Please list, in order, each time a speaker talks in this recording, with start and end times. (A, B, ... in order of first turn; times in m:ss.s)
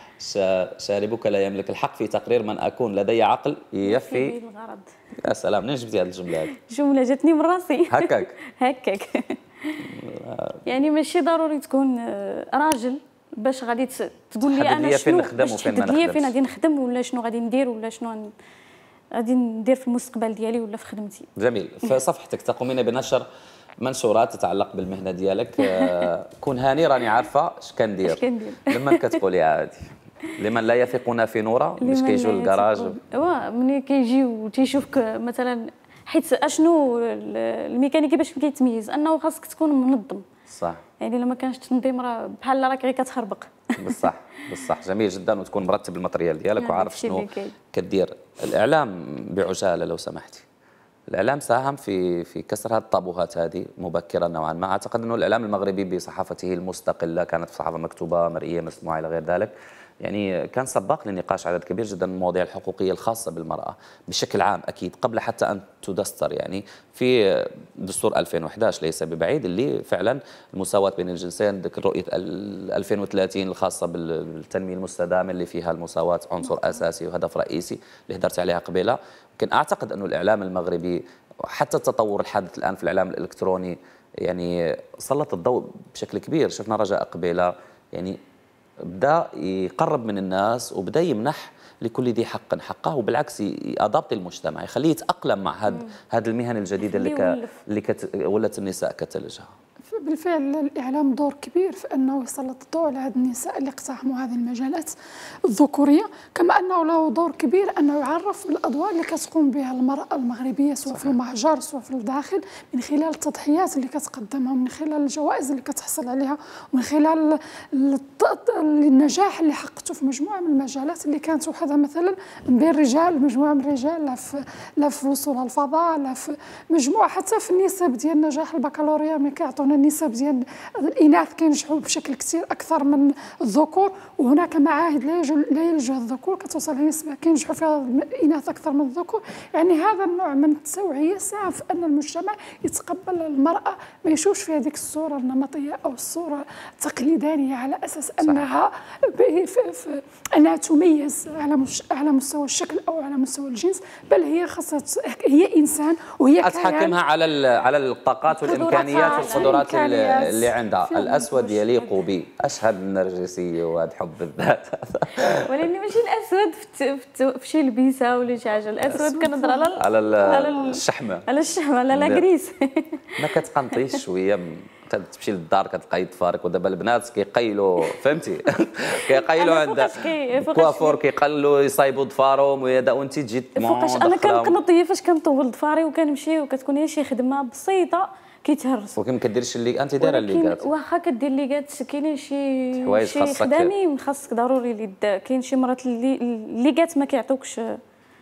0:00.2-0:04.3 A
0:03.8-0:04.9 B
0:05.2-0:06.5 A
0:06.5-0:09.9 B
0:07.9-0:08.3 A
0:09.9-0:10.6 A
0:10.6-0:18.3 B
0:14.4-0:16.3 A
0:19.1-0:21.3 B
0:21.4-0:23.2 A
0:23.8-0:33.0 A
0:25.6-0:26.0 B
0:28.0-0:29.2 B
0:31.8-0:40.2 B
0:40.5-0:40.8 A
0:41.0-0:44.0 B
0:43.8-0:50.4 A
0:46.6-0:47.5 B
0:51.1-1:28.2 A
1:28.9-1:39.5 A
1:36.8-1:37.6 B
1:39.9-1:44.9 C
1:45.5-2:37.0 C
1:50.9-1:51.2 A
2:28.2-2:28.5 A
2:36.4-2:45.7 A
2:38.4-2:42.0 C
2:38.4-2:40.0 B
2:45.4-2:53.0 B
2:49.0-2:49.7 C
2:49.8-2:51.2 A
2:51.9-2:52.2 A
2:53.2-3:04.6 A
2:59.1-3:01.0 B
3:03.6-3:09.0 B
3:09.0-3:10.7 A
3:10.0-3:17.6 B
3:12.8-3:13.7 A